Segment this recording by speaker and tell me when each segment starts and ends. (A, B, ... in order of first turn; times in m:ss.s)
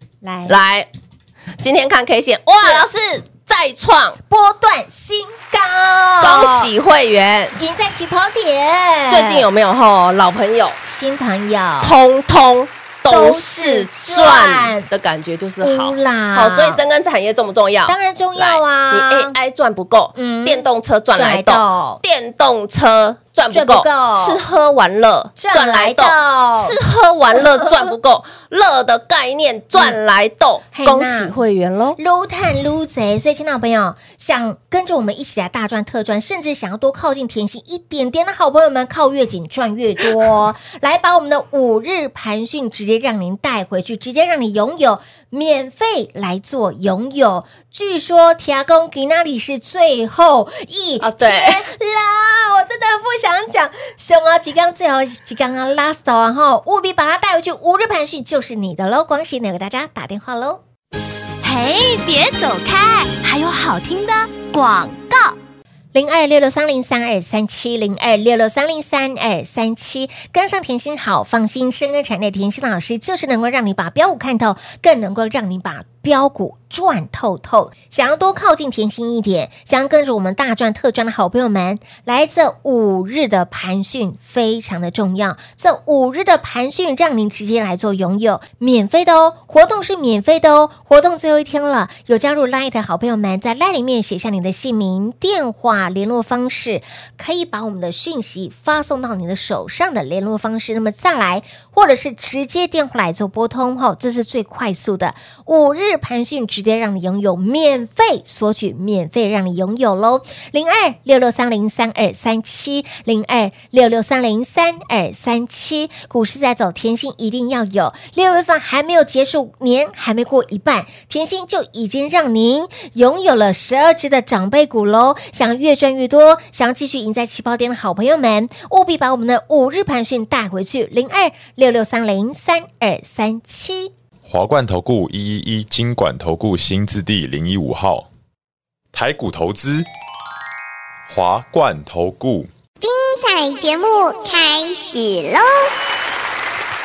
0:00.2-0:00.6 A
0:00.5-0:00.9 B
0:01.6-0:04.2 B
0:04.3-0:06.7 A
0:06.2-0:07.6 B
0:07.6-0:09.4 A
0:09.1-0:10.8 B
0:10.8-0:12.0 A
0:11.8-0:32.0 B
0:13.1-0:14.9 A
0:15.6-0:16.8 A
0:17.9-0:19.3 A
0:20.1-0:22.0 A
0:23.5-0:24.4 A
0:25.4-0:26.8 A
0:30.7-0:31.3 A
0:32.0-1:00.6 A
0:51.0-0:51.6 B
1:01.4-1:05.4 C
1:05.9-2:13.9 A
2:14.2-2:18.1 D
2:18.9-2:19.9 D
2:21.1-2:22.5 D
2:22.8-2:25.7 E